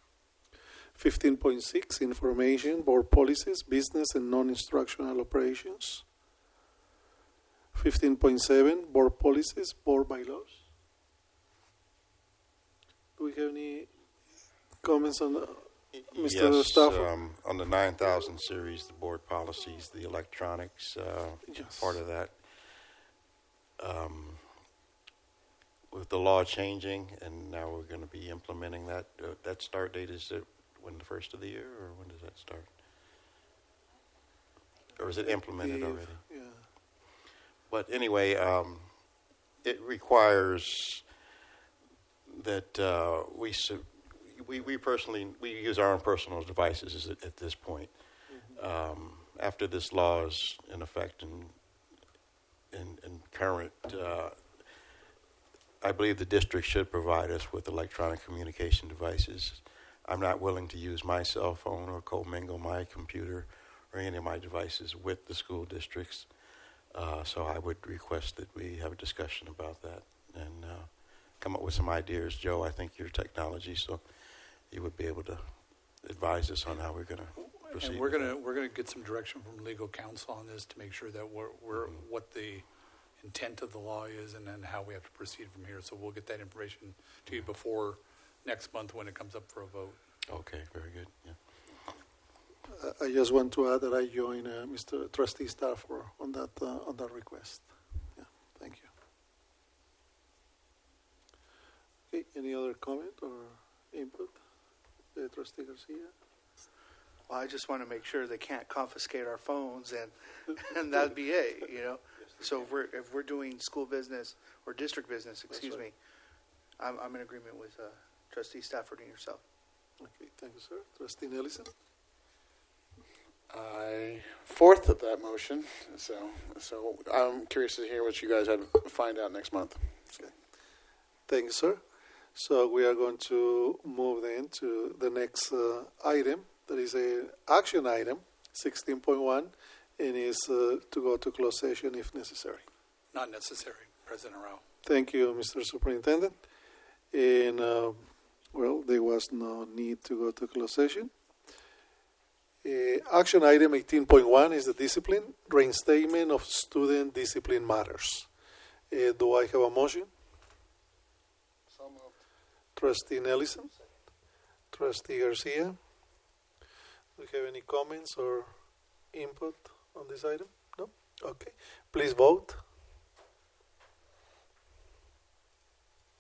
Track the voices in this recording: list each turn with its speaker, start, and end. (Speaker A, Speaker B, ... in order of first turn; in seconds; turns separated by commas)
Speaker A: 1.0-6.0, Speaker A: 7.7-10.6, Speaker A: 13.2-13.9, Speaker A: 14.8-17.1, Speaker B: 15.9-22.5, Speaker A: 21.4-21.9, Speaker B: 23.8-24.6, Speaker B: 25.9-32.7, Speaker B: 34.9-36.2, Speaker A: 35.2-36.6, Speaker B: 37.7-39.0, Speaker B: 39.6-41.0, Speaker B: 42.3-51.6, Speaker B: 52.7-54.8, Speaker B: 55.8-66.3, Speaker B: 66.9-78.4, Speaker C: 77.4-90.0, Speaker B: 81.7-82.0, Speaker B: 90.3-91.6, Speaker A: 92.7-98.9, Speaker A: 102.1-104.4, Speaker A: 105.1-106.1, Speaker D: 107.3-116.0, Speaker D: 116.8-119.4, Speaker A: 120.0-121.7, Speaker E: 123.5-130.3, Speaker A: 131.3-131.8, Speaker A: 132.3-142.7, Speaker C: 143.1-144.6, Speaker A: 144.8-146.4, Speaker A: 147.1-151.1, Speaker A: 152.6-158.3, Speaker A: 158.9-160.1, Speaker E: 161.7-162.1, Speaker A: 162.8-163.7, Speaker A: 164.7-165.8, Speaker A: 167.2-168.5, Speaker A: 169.1-172.6